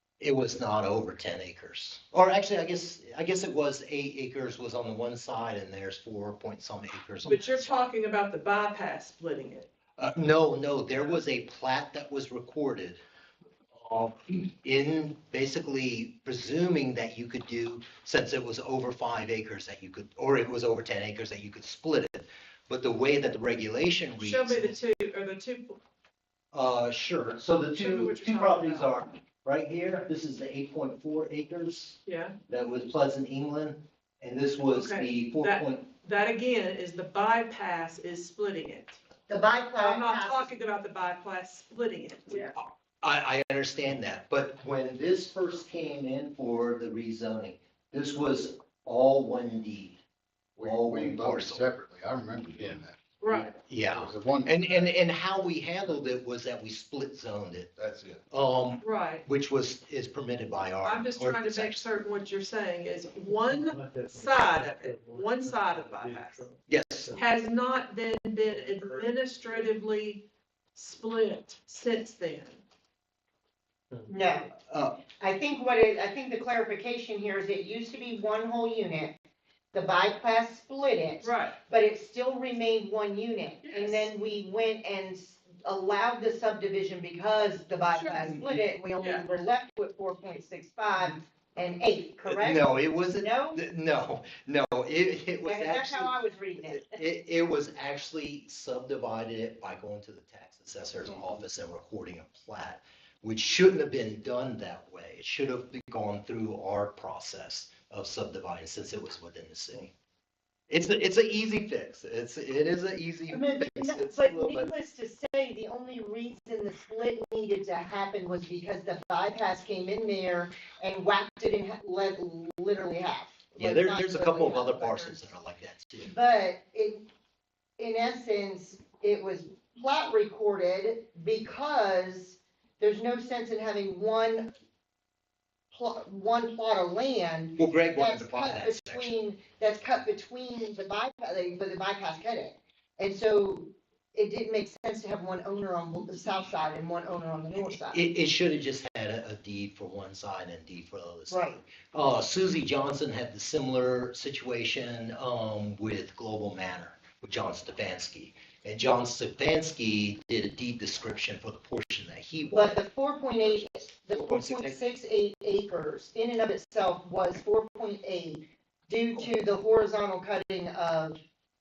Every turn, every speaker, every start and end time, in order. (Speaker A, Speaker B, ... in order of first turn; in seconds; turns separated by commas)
Speaker A: 0.2-7.8, Speaker B: 7.3-9.7, Speaker A: 10.0-13.0, Speaker A: 13.8-24.8, Speaker B: 24.2-25.8, Speaker A: 26.5-35.8, Speaker B: 27.8-29.0, Speaker B: 32.1-32.3, Speaker B: 34.7-39.0, Speaker C: 39.3-40.5, Speaker B: 39.8-42.5, Speaker A: 42.6-50.0, Speaker D: 50.6-53.0, Speaker A: 50.6-51.7, Speaker B: 53.2-53.5, Speaker A: 53.6-57.7, Speaker D: 54.0-54.9, Speaker D: 57.8-58.2, Speaker A: 58.3-61.9, Speaker B: 58.8-59.3, Speaker B: 60.8-66.5, Speaker A: 66.7-67.2, Speaker B: 67.2-72.6, Speaker C: 74.1-74.5, Speaker A: 74.7-75.0, Speaker C: 75.2-79.1, Speaker C: 79.7-93.6, Speaker B: 81.2-81.6, Speaker B: 83.6-84.1, Speaker B: 87.9-88.3, Speaker A: 88.3-88.6, Speaker B: 89.0-89.3, Speaker A: 92.3-96.2, Speaker C: 95.5-97.0, Speaker A: 96.7-109.9, Speaker A: 110.7-114.7, Speaker C: 113.3-125.2, Speaker A: 123.6-126.1, Speaker C: 126.0-127.1, Speaker C: 127.8-134.5, Speaker C: 135.7-148.0, Speaker A: 137.6-139.1, Speaker A: 147.7-162.8, Speaker C: 151.3-151.6, Speaker C: 162.5-171.2, Speaker A: 164.2-164.8